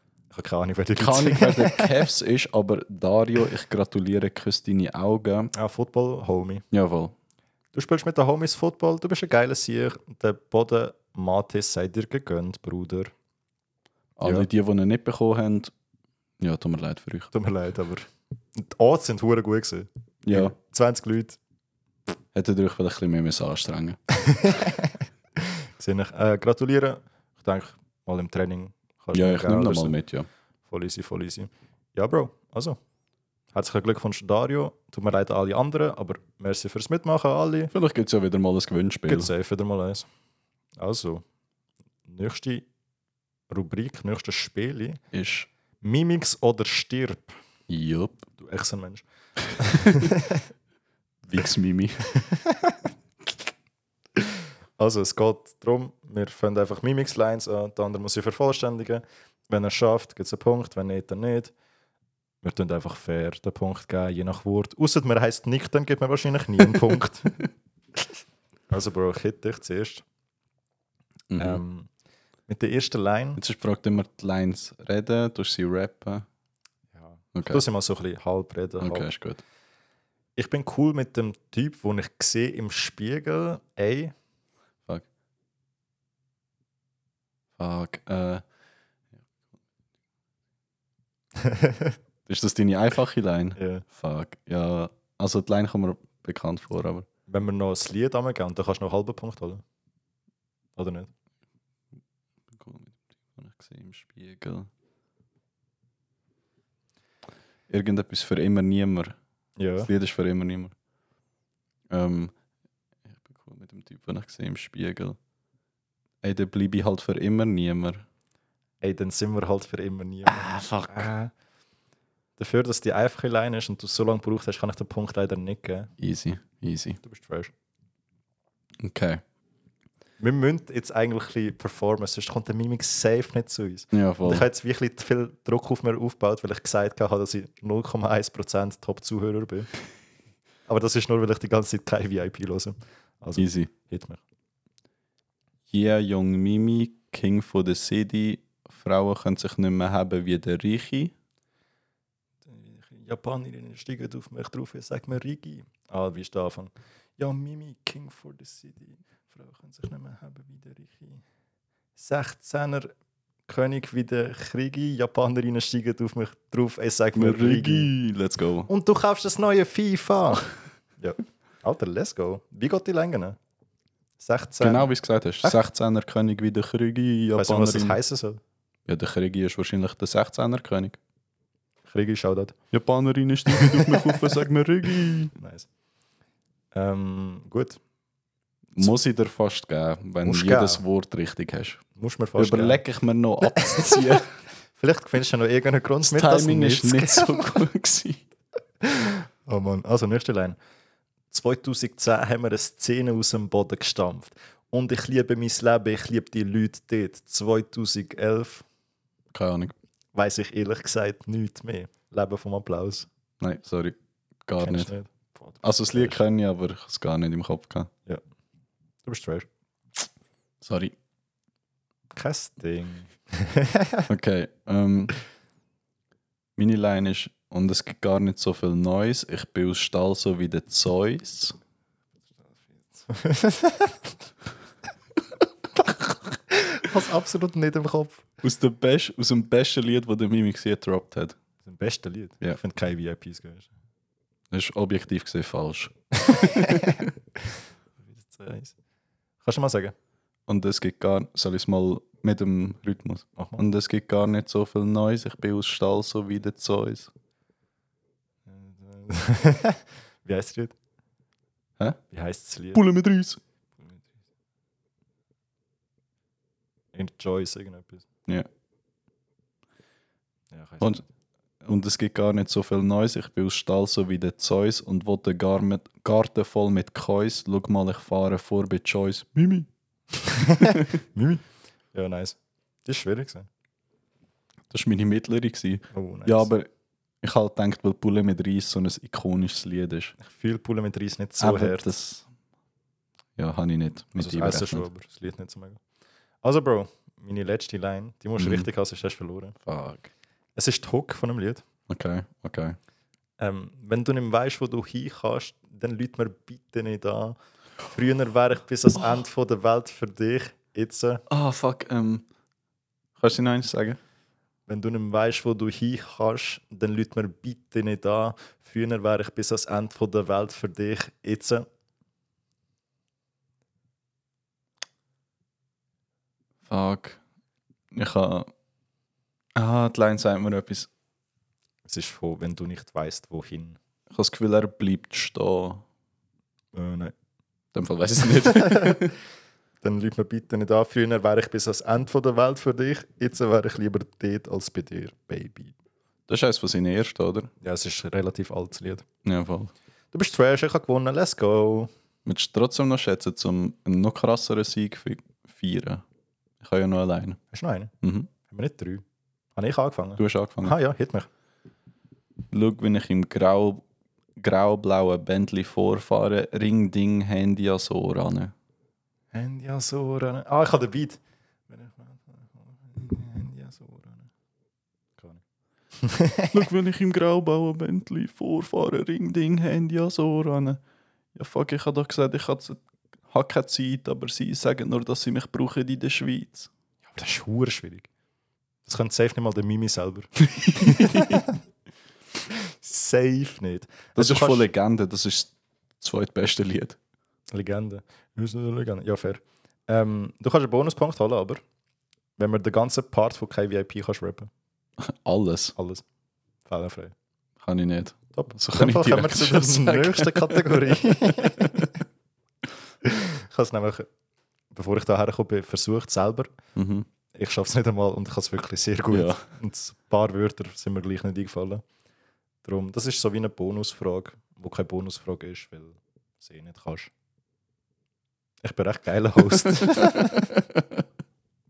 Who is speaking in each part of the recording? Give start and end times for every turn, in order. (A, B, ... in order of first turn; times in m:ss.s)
0:00.3-0:01.9 A
0:01.0-0:05.5 B
0:05.5-0:06.6 A
0:06.7-0:07.1 B
0:07.7-0:13.1 A
0:14.2-0:15.7 B
0:16.4-0:17.3 B
0:17.3-0:21.4 A
0:20.2-0:20.5 B
0:22.3-0:24.0 B
0:24.2-0:30.0 A
0:29.1-0:30.3 B
0:30.7-0:32.8 A
0:33.5-0:37.7 A
0:37.7-0:39.3 B
0:39.1-0:40.1 A
0:40.8-0:41.2 A
0:42.1-0:42.7 A
0:43.5-0:45.0 A
0:45.1-0:45.5 B
0:45.8-0:47.4 A
0:47.7-0:48.2 B
0:48.4-0:49.0 A
0:49.6-0:50.4 A
0:49.8-0:50.1 B
0:51.3-0:52.1 B
0:52.1-0:52.8 A
0:54.2-1:01.5 A
1:02.4-1:07.4 A
1:08.7-1:10.0 A
1:11.3-1:11.6 B
1:11.4-1:11.9 A
1:12.5-1:13.4 A
1:13.4-1:16.2 B
1:17.0-1:19.1 A
1:17.3-1:17.6 B
1:18.8-1:19.4 B
1:20.4-1:24.1 A
1:27.6-1:28.4 B
1:31.4-1:31.9 A
1:32.3-1:37.0 B
1:33.6-1:33.8 A
1:37.3-1:39.6 A
1:40.8-1:41.1 A
1:42.5-1:44.7 B
1:47.7-1:49.2 B
1:49.6-1:49.9 A
1:49.8-1:50.7 B
1:51.9-1:52.3 B
1:53.1-1:55.2 B
1:56.2-1:58.0 B
1:58.8-2:01.3 A
2:00.2-2:01.1 B
2:02.4-2:05.9 A
2:06.0-2:07.0 B
2:07.0-2:07.5 A
2:08.8-2:09.2 B
2:10.2-2:19.7 A
2:13.9-2:14.4 B
2:20.7-2:24.2 A
2:23.4-2:23.7 B
2:25.7-2:31.1 B
2:32.5-2:41.2 A
2:42.0-2:42.9 A
2:43.5-2:47.9 A
2:47.1-2:48.7 B
2:48.7-2:53.4 A
2:54.2-2:54.9 A
2:54.6-2:58.0 B
2:57.3-2:58.4 A
2:58.8-3:01.0 B
3:01.9-3:02.6 A
3:02.7-3:05.3 B
3:03.5-3:04.3 A
3:05.4-3:05.7 A
3:06.7-3:07.8 A
3:08.8-3:11.8 B
3:10.2-3:10.8 A
3:12.0-3:12.8 A
3:12.4-3:14.3 B
3:13.5-3:14.2 A
3:14.7-3:17.6 A
3:16.1-3:18.2 B
3:18.8-3:20.6 A
3:21.3-3:28.6 A
3:29.3-3:29.7 B
3:30.1-3:33.1 A
3:33.4-3:34.9 B
3:34.6-3:36.2 A
3:35.6-3:37.9 B
3:39.0-3:39.5 A
3:40.6-3:40.9 B
3:42.1-3:44.0 A
3:44.1-3:45.1 B
3:46.6-3:51.6 B
3:52.6-3:54.0 A
3:55.8-3:58.2 A
3:58.4-4:01.4 B
4:01.6-4:03.7 A
4:04.5-4:07.1 B
4:06.2-4:07.1 A
4:08.1-4:08.7 A
4:09.4-4:09.9 A
4:10.5-4:17.1 B
4:13.4-4:13.6 A
4:18.5-4:20.7 A
4:22.1-4:22.8 A
4:22.7-4:23.4 B
4:26.9-4:28.0 A
4:30.5-4:31.1 A
4:31.6-4:39.7 B
4:40.2-4:41.4 A
4:40.6-4:40.9 B
4:41.9-4:43.5 A
4:44.7-4:46.7 B
4:45.9-4:46.5 A
4:47.2-4:50.1 B
4:50.2-4:51.9 A
4:51.4-4:52.2 B
4:53.4-4:54.8 B
4:54.2-4:55.8 A
4:56.4-4:59.6 A
4:58.4-4:58.7 B
4:59.6-5:00.1 B
5:00.6-5:01.6 A
5:01.9-5:02.8 B
5:03.4-5:11.2 A
5:11.3-5:12.2 B
5:13.2-5:14.0 B
5:14.7-5:21.6 A
5:26.6-5:27.2 B
5:27.9-5:28.5 B
5:29.6-5:30.9 B
5:31.8-5:33.8 A
5:34.1-5:35.8 B
5:36.7-5:37.1 A
5:37.7-5:39.2 B
5:38.3-5:39.1 A
5:39.8-5:45.7 A
5:46.3-5:47.5 B
5:47.6-5:49.0 A
5:49.2-5:49.7 B
5:50.1-5:51.9 A
5:52.2-5:56.0 B
5:56.6-5:57.4 B
5:57.5-5:57.9 A
5:58.0-5:58.3 B
5:58.5-5:59.0 A
5:59.6-6:01.3 A
6:00.2-6:00.7 B
6:02.5-6:03.8 B
6:04.4-6:08.5 B
6:09.3-6:14.3 A
6:16.0-6:16.7 A
6:16.5-6:20.8 B
6:21.3-6:26.7 B
6:27.1-6:28.1 A
6:28.8-6:31.6 A
6:30.5-6:31.4 B
6:32.5-6:34.7 A
6:34.2-6:37.0 B
6:37.5-6:41.6 A
6:42.4-6:44.5 A
6:45.0-6:45.7 B
6:45.8-6:46.0 A
6:46.7-6:47.1 A
6:47.6-6:51.9 B
6:48.4-6:51.9 A
6:53.0-6:54.1 A
6:54.7-6:56.5 A
6:56.8-6:57.1 B
6:57.3-7:01.8 A
6:59.1-6:59.4 B
7:02.6-7:07.1 A
7:08.6-7:10.5 A
7:10.0-7:10.8 B